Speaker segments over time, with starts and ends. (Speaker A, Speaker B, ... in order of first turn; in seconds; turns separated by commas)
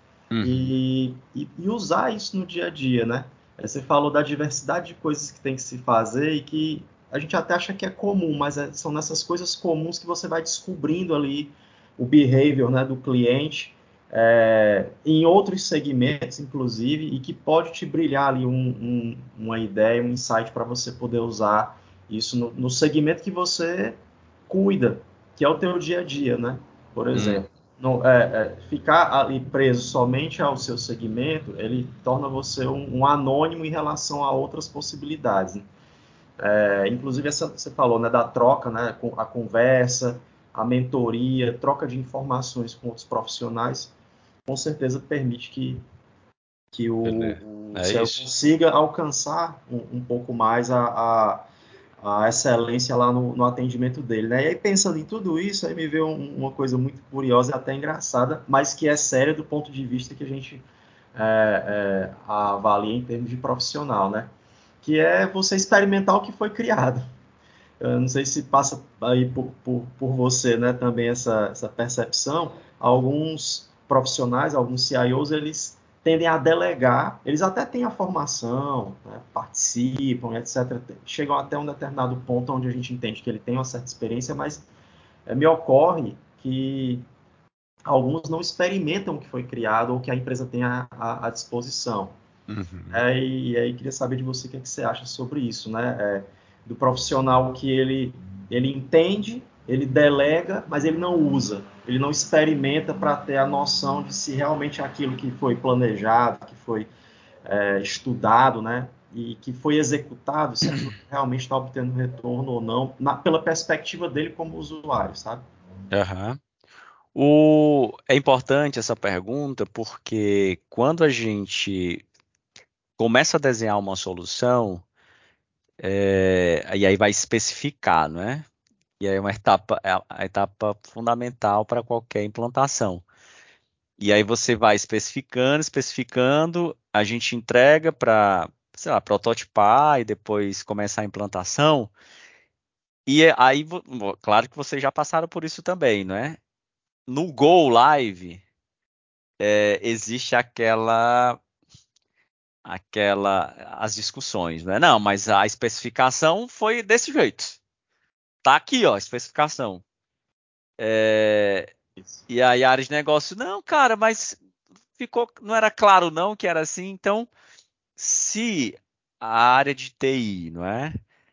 Speaker A: 0.3-0.7, Speaker B: 0.4-35.7, Speaker A: 27.1-27.4, Speaker B: 36.4-43.9, Speaker B: 44.5-45.8, Speaker B: 46.7-51.5, Speaker A: 47.0-48.3, Speaker B: 52.0-64.3, Speaker B: 64.8-67.1, Speaker B: 67.8-84.7, Speaker B: 85.3-87.0, Speaker B: 87.9-92.2, Speaker A: 92.5-93.0, Speaker B: 92.9-106.9, Speaker B: 107.5-115.5, Speaker A: 115.9-116.4, Speaker A: 117.2-122.0, Speaker A: 123.0-124.8, Speaker A: 125.8-128.5, Speaker A: 129.0-133.0, Speaker A: 134.0-141.9, Speaker A: 143.1-146.4, Speaker A: 147.1-148.4, Speaker A: 149.4-151.4, Speaker A: 152.7-157.6, Speaker A: 158.4-159.8, Speaker A: 160.8-161.7, Speaker B: 162.0-162.2, Speaker A: 162.3-164.4, Speaker A: 165.0-167.3, Speaker A: 168.0-171.0